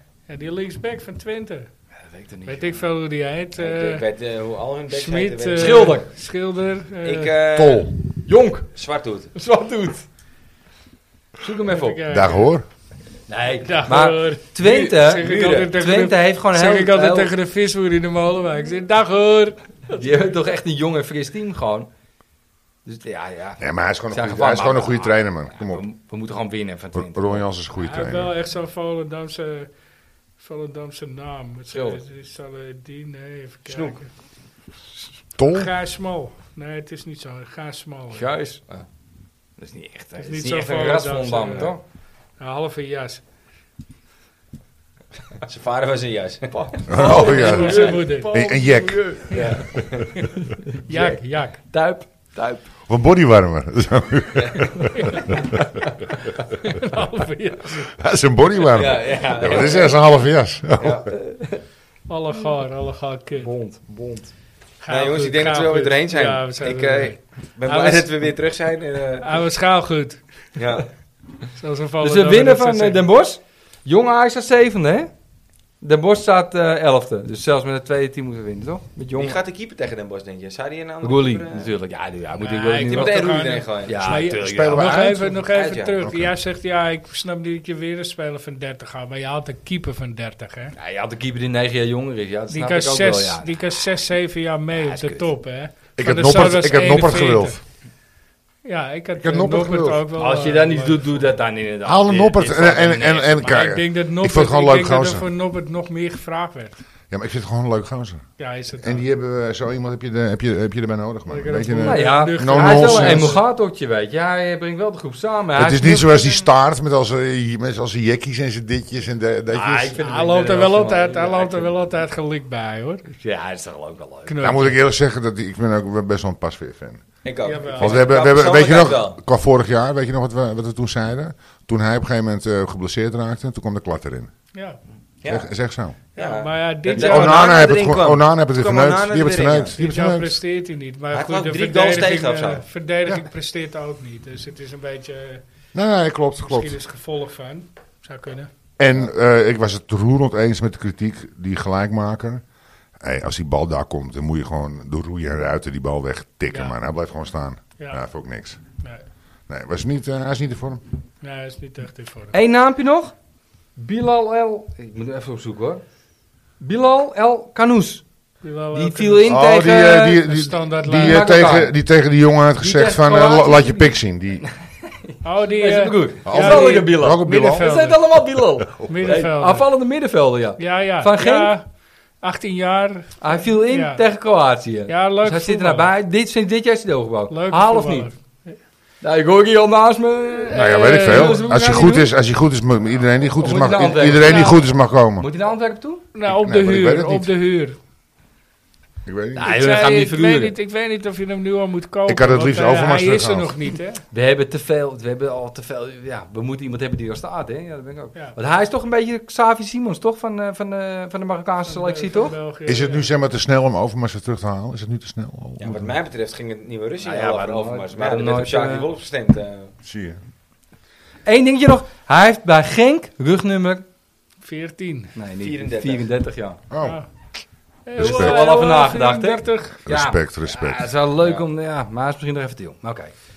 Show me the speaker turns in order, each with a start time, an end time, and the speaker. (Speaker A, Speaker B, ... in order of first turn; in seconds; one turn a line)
Speaker A: 0.3-1.7
Speaker B: 2.0-2.8
Speaker A: 2.5-4.0
Speaker C: 3.6-6.0
Speaker A: 4.9-7.3
Speaker B: 5.5-6.1
Speaker C: 7.0-7.9
Speaker D: 7.5-7.9
Speaker B: 8.2-8.7
Speaker C: 8.7-9.3
Speaker B: 9.3-10.0
Speaker B: 11.4-12.0
Speaker A: 11.6-12.5
Speaker D: 12.1-12.6
Speaker B: 13.3-17.3
Speaker A: 13.6-20.4
Speaker C: 14.6-15.7
Speaker B: 19.9-21.9
Speaker B: 22.8-27.5
Speaker D: 23.6-25.8
Speaker D: 26.9-28.3
Speaker A: 27.8-29.7
Speaker A: 30.4-34.1
Speaker B: 31.7-32.0
Speaker C: 33.7-34.0
Speaker D: 35.4-35.7
Speaker A: 35.5-38.3
Speaker B: 38.1-38.6
Speaker B: 39.6-41.8
Speaker A: 40.2-41.8
Speaker A: 42.4-43.2
Speaker C: 45.4-46.5
Speaker B: 46.5-52.6
Speaker D: 46.9-49.4
Speaker A: 46.9-48.3
Speaker A: 49.3-50.3
Speaker C: 49.8-50.0
Speaker A: 50.9-51.6
Speaker D: 52.9-55.6
Speaker A: 54.9-55.3
Speaker A: 56.5-57.9
Speaker D: 57.9-61.1
Speaker C: 58.7-60.0
Speaker C: 60.8-61.1
Speaker B: 61.1-61.6
Speaker A: 62.1-63.5
Speaker B: 63.4-64.3
Speaker A: 64.8-68.1
Speaker C: 64.9-69.4
Speaker A: 69.2-70.2
Speaker C: 70.5-70.8
Speaker A: 71.5-73.1
Speaker B: 72.0-75.1
Speaker B: 75.8-79.4
Speaker C: 79.1-81.7
Speaker B: 81.0-85.2
Speaker A: 82.4-90.7
Speaker C: 82.8-84.2
Speaker D: 84.4-85.3
Speaker C: 85.4-86.0
Speaker D: 86.0-86.3
Speaker B: 90.8-93.6
Speaker A: 92.5-97.6
Speaker B: 94.7-95.3
Speaker D: 96.0-97.5
Speaker A: 98.6-101.3
Speaker D: 99.2-100.0
Speaker B: 100.2-103.6
Speaker D: 101.8-105.2
Speaker A: 103.4-106.7
Speaker D: 107.1-108.2
Speaker A: 108.4-109.0
Speaker D: 108.8-113.4
Speaker A: 111.3-113.4
Speaker B: 111.8-116.5
Speaker D: 115.5-120.0
Speaker B: 119.5-121.7
Speaker A: 120.0-123.0
Speaker B: 123.2-124.6
Speaker A: 124.2-124.8
Speaker D: 124.4-127.0
Speaker C: 127.2-129.2
Speaker A: 127.4-128.1
Speaker D: 127.8-134.3
Speaker A: 134.5-134.8
Speaker D: 135.2-135.9
Speaker A: 136.1-137.7
Speaker C: 136.2-139.7
Speaker D: 136.9-140.4
Speaker A: 139.5-145.4
Speaker C: 141.1-142.6
Speaker D: 145.7-146.8
Speaker A: 146.4-148.5
Speaker D: 148.8-152.4
Speaker D: 153.0-158.6
Speaker A: 156.5-156.8
Speaker D: 159.5-160.8
Speaker A: 161.2-162.4
Speaker B: 162.3-163.1
Speaker B: 163.8-165.8
Speaker B: 166.6-168.0
Speaker A: 168.4-169.4
Speaker B: 168.7-170.2
Speaker D: 169.2-174.4
Speaker A: 170.1-171.5
Speaker B: 170.9-171.7
Speaker B: 172.6-181.5
Speaker A: 175.2-178.0
Speaker D: 176.2-177.7
Speaker D: 178.6-178.9
Speaker A: 178.9-179.7
Speaker A: 180.6-181.7
Speaker A: 182.2-184.0
Speaker B: 183.2-188.1
Speaker A: 184.9-185.9
Speaker A: 187.3-188.6
Speaker B: 189.0-192.1
Speaker A: 190.3-191.5
Speaker D: 190.5-195.3
Speaker B: 193.4-196.0
Speaker A: 194.2-194.6
Speaker A: 196.1-197.8
Speaker D: 196.3-197.3
Speaker D: 199.1-199.4
Speaker B: 199.3-200.5
Speaker A: 199.4-204.0
Speaker D: 202.1-203.5
Speaker B: 204.1-212.3
Speaker A: 211.7-213.1
Speaker D: 212.7-215.9
Speaker C: 215.6-219.7
Speaker B: 217.0-218.9
Speaker D: 219.8-220.2
Speaker B: 221.2-223.8
Speaker A: 224.4-225.1
Speaker B: 225.2-226.6
Speaker C: 225.4-226.1
Speaker D: 226.7-227.0
Speaker A: 226.8-227.1
Speaker A: 227.8-229.8
Speaker D: 228.0-228.4
Speaker B: 228.0-233.1
Speaker D: 229.8-230.9
Speaker C: 231.2-231.4